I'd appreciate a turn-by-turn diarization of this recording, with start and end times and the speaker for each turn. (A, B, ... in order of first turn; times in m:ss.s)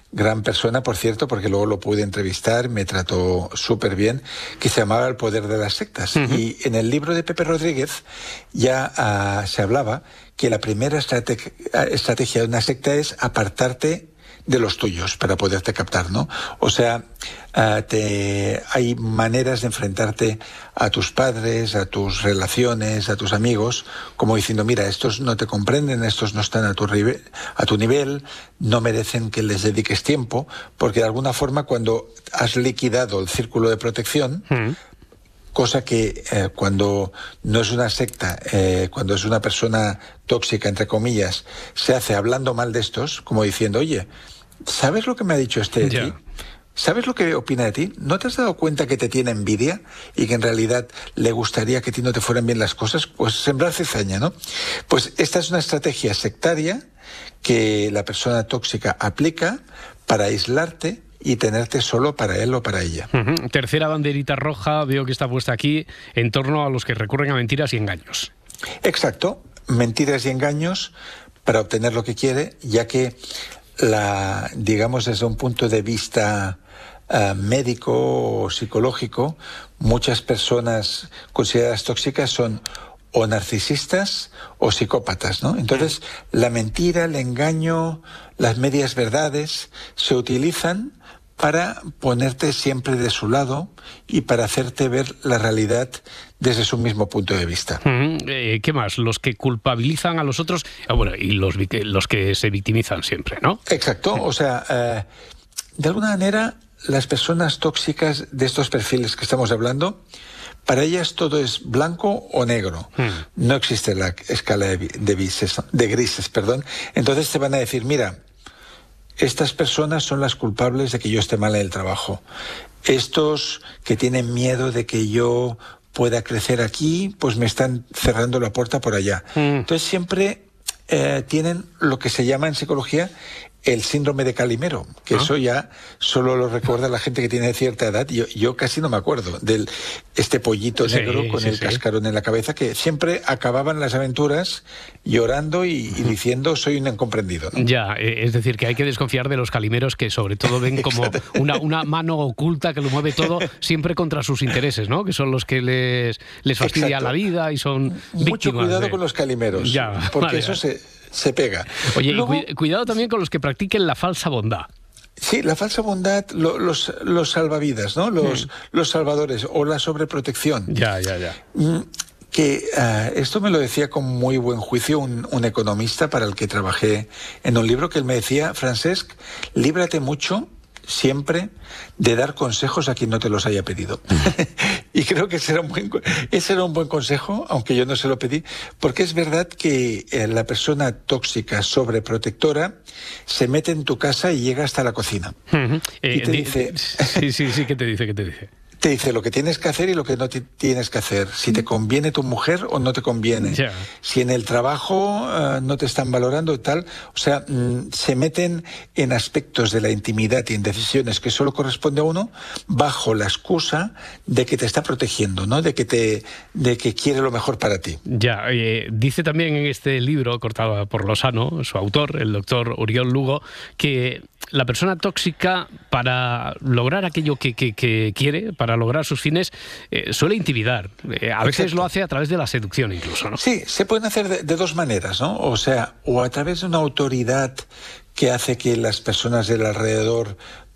0:00.1-0:34.5 A
0:06.2-0:06.4 B
0:34.5-0:34.8 B
0:35.5-0:44.1 A
0:44.6-0:46.2 A
0:45.8-0:46.1 B
0:46.8-0:54.3 A
0:54.9-0:56.8 A
0:57.4-1:03.1 A
1:03.1-1:08.3 B
1:08.8-1:10.9 A
1:11.4-1:13.2 A
1:13.8-1:16.6 A
1:17.1-1:37.8 A
1:37.8-1:43.6 B
1:43.7-1:45.0 A
1:45.8-1:50.0 A
1:50.6-1:58.2 A
1:59.2-2:02.2 A
2:02.8-2:13.1 A
2:09.4-2:09.6 B
2:13.6-2:27.6 A
2:20.8-2:21.8 B
2:27.5-2:39.0 B
2:30.5-2:31.6 A
2:33.1-2:33.5 A
2:36.6-2:37.2 A
2:37.9-2:42.5 A
2:39.6-2:40.6 B
2:41.9-2:44.7 B
2:45.2-2:50.7 A
2:48.2-2:48.5 B
2:50.7-2:51.4 B
2:51.5-3:12.8 A
3:13.3-3:15.4 A
3:15.5-3:18.5 B
3:16.1-3:17.3 A
3:18.8-3:38.0 A
3:23.4-3:23.9 B
3:38.1-3:53.4 B
3:51.4-3:51.9 A
3:53.3-4:00.4 A